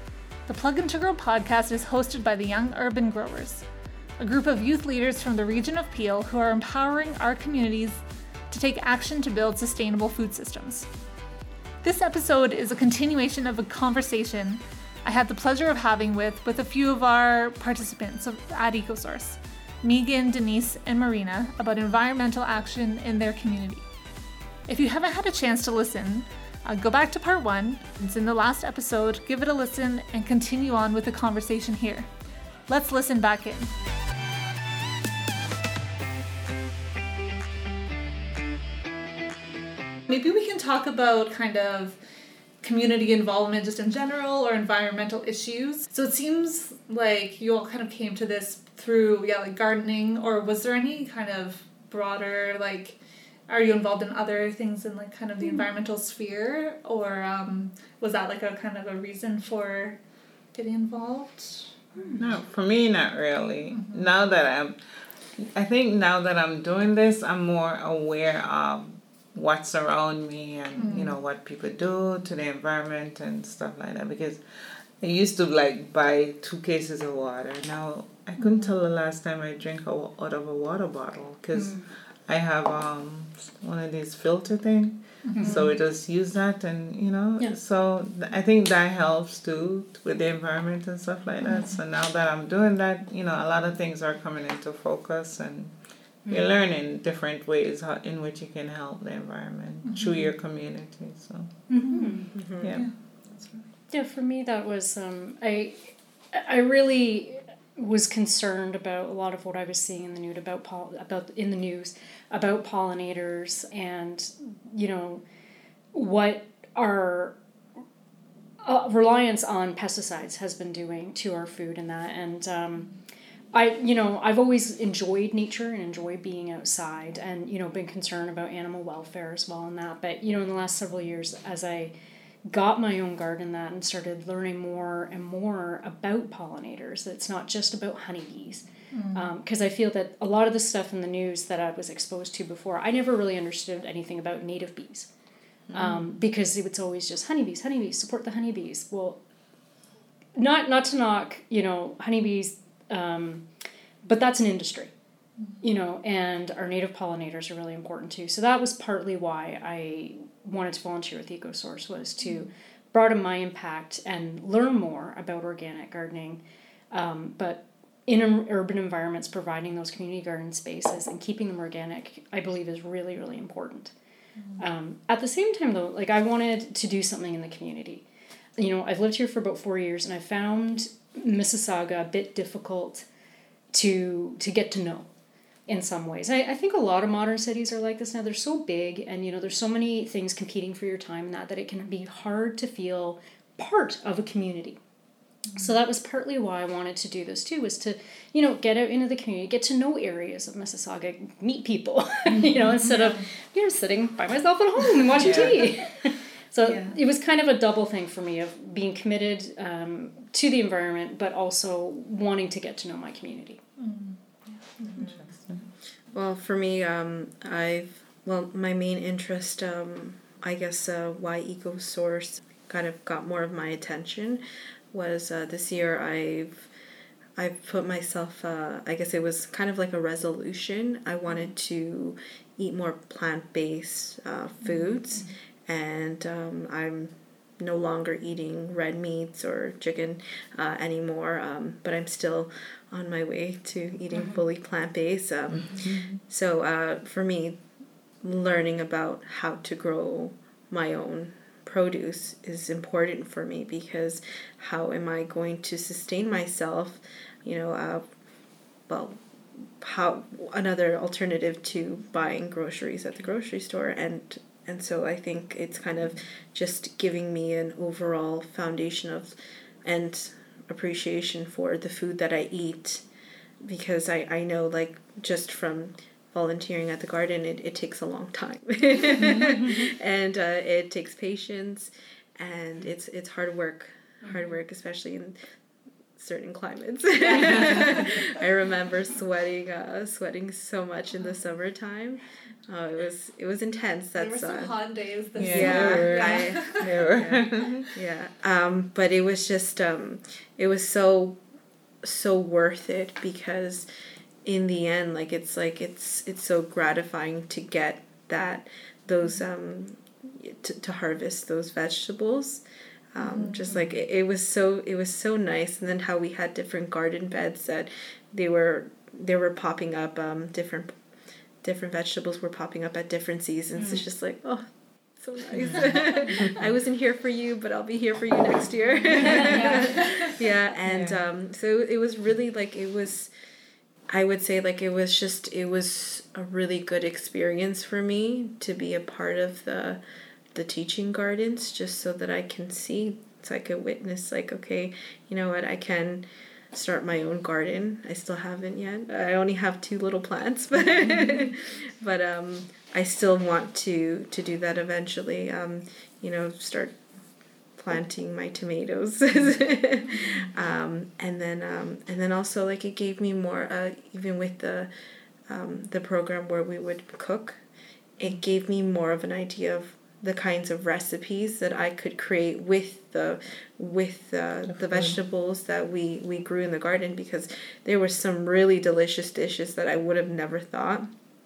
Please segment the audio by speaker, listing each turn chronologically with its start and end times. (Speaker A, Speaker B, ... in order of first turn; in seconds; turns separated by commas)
Speaker A: 0.5-3.6, Speaker A: 4.2-10.9, Speaker A: 11.8-23.8, Speaker A: 24.7-32.1, Speaker A: 32.7-33.7, Speaker A: 40.1-42.0, Speaker A: 42.6-53.0, Speaker A: 53.5-60.0, Speaker A: 60.5-61.7, Speaker B: 62.0-62.2, Speaker C: 62.2-64.8, Speaker A: 63.7-64.1, Speaker C: 65.3-95.8, Speaker A: 70.8-71.2, Speaker A: 78.4-78.7, Speaker B: 81.5-81.9, Speaker A: 85.2-85.7, Speaker B: 85.4-85.7, Speaker B: 91.4-91.7, Speaker B: 96.2-96.5, Speaker C: 96.3-101.6, Speaker A: 99.8-100.3, Speaker B: 101.7-102.3, Speaker A: 101.8-102.1, Speaker D: 102.3-102.8, Speaker C: 102.6-102.9, Speaker A: 102.7-103.6, Speaker B: 103.9-115.2, Speaker B: 115.9-117.3, Speaker B: 118.6-122.9, Speaker B: 123.5-131.9, Speaker B: 132.4-145.1, Speaker A: 138.9-139.2, Speaker C: 145.7-146.1, Speaker B: 145.7-149.2, Speaker B: 150.3-153.5, Speaker B: 154.0-154.9, Speaker B: 155.6-173.9, Speaker B: 174.6-178.0, Speaker B: 178.6-183.1, Speaker B: 183.7-185.1, Speaker B: 185.7-194.8, Speaker B: 195.5-213.6, Speaker A: 202.8-203.2, Speaker C: 205.2-205.7, Speaker A: 206.6-206.9, Speaker A: 213.8-215.1, Speaker C: 215.0-215.7, Speaker D: 216.1-226.7, Speaker D: 227.3-247.6, Speaker B: 244.1-244.4, Speaker C: 245.5-246.2, Speaker D: 248.2-258.1, Speaker D: 258.9-259.2, Speaker D: 259.8-273.0, Speaker D: 273.6-285.5, Speaker C: 279.2-279.8, Speaker D: 286.1-294.7, Speaker A: 294.1-297.0, Speaker C: 295.4-297.9, Speaker D: 295.4-301.4, Speaker D: 302.0-303.9, Speaker D: 304.4-321.0, Speaker A: 313.2-313.8, Speaker D: 321.6-324.6, Speaker D: 325.1-333.3, Speaker C: 325.6-326.6, Speaker A: 329.4-330.2, Speaker C: 330.9-331.2, Speaker D: 334.1-340.0, Speaker D: 340.5-357.0, Speaker D: 357.8-364.9, Speaker A: 360.1-360.4, Speaker D: 365.5-367.6, Speaker D: 368.2-381.1, Speaker C: 374.8-375.2